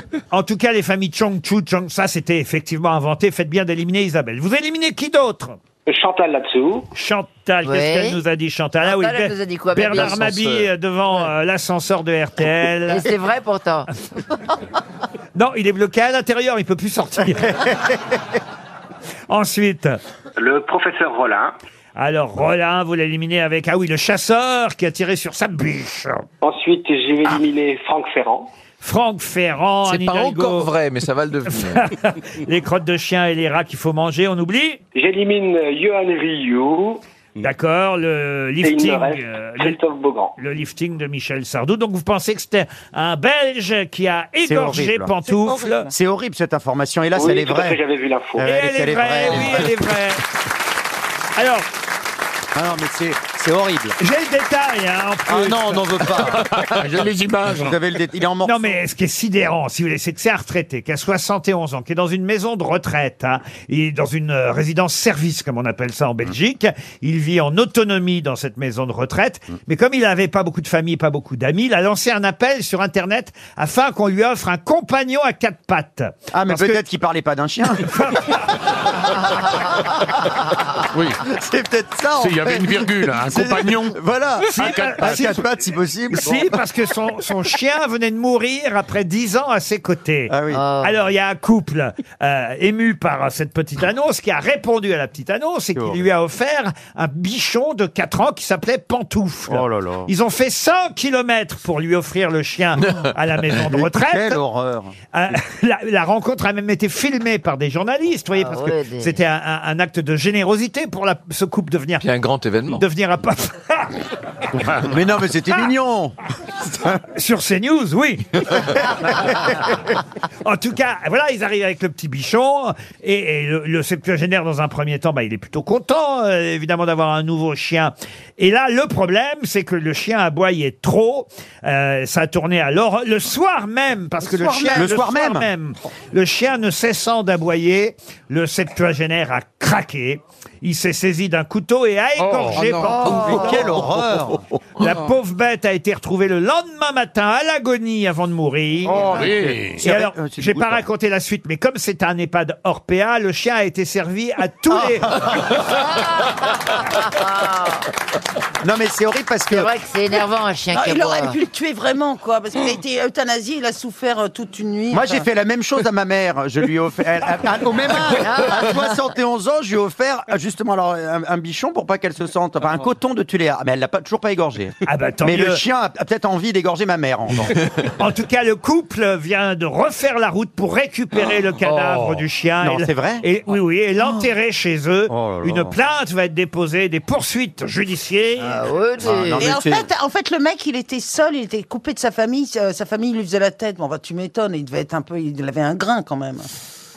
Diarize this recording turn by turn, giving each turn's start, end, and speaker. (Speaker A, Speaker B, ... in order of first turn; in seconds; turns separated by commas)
Speaker A: 0.3-5.6, Speaker B: 5.9-6.9, Speaker A: 6.9-13.1, Speaker C: 7.6-8.2, Speaker C: 8.8-10.7, Speaker C: 12.9-14.0, Speaker A: 15.3-17.7, Speaker A: 19.3-20.0, Speaker B: 20.4-21.5, Speaker A: 21.9-26.2, Speaker B: 26.4-28.5, Speaker A: 28.8-30.7, Speaker D: 29.9-31.8, Speaker A: 31.5-34.8, Speaker B: 34.9-37.0, Speaker A: 37.4-39.8, Speaker B: 38.6-40.3, Speaker A: 40.4-45.9, Speaker E: 44.4-45.2, Speaker F: 45.4-45.8, Speaker E: 45.9-47.8, Speaker B: 47.1-48.4, Speaker E: 48.4-49.7, Speaker A: 48.4-50.2, Speaker A: 51.4-51.6, Speaker E: 52.5-54.0, Speaker A: 54.0-56.1, Speaker E: 55.3-58.6, Speaker G: 56.5-57.7, Speaker A: 58.4-76.8, Speaker E: 76.3-77.9, Speaker A: 77.8-78.9, Speaker E: 79.8-80.3, Speaker G: 80.9-81.2, Speaker E: 81.2-86.6, Speaker G: 82.2-85.1, Speaker A: 84.5-85.4, Speaker A: 86.1-104.4, Speaker E: 90.3-90.7, Speaker C: 90.5-90.9, Speaker E: 95.8-96.1, Speaker E: 99.5-100.1, Speaker E: 103.7-104.9, Speaker A: 105.1-112.0, Speaker C: 108.3-109.2, Speaker D: 112.0-112.8, Speaker A: 112.7-114.0, Speaker E: 114.7-116.1, Speaker E: 116.7-117.0, Speaker A: 117.1-119.7, Speaker A: 120.4-144.0, Speaker F: 134.2-135.0, Speaker E: 134.7-135.5, Speaker G: 142.2-142.6, Speaker D: 142.5-143.7, Speaker E: 142.8-144.4, Speaker A: 144.8-149.3, Speaker E: 148.8-150.8, Speaker G: 148.9-149.8, Speaker A: 149.8-155.2, Speaker E: 154.7-155.6, Speaker C: 155.9-157.8, Speaker E: 158.6-159.7, Speaker C: 159.5-161.4, Speaker F: 160.7-165.2, Speaker E: 164.9-177.5, Speaker C: 168.2-168.8, Speaker A: 174.8-175.6, Speaker A: 177.8-188.6, Speaker E: 182.6-183.2, Speaker E: 184.0-184.3, Speaker E: 185.1-185.8, Speaker C: 188.4-189.5, Speaker E: 189.0-189.9, Speaker F: 189.4-196.4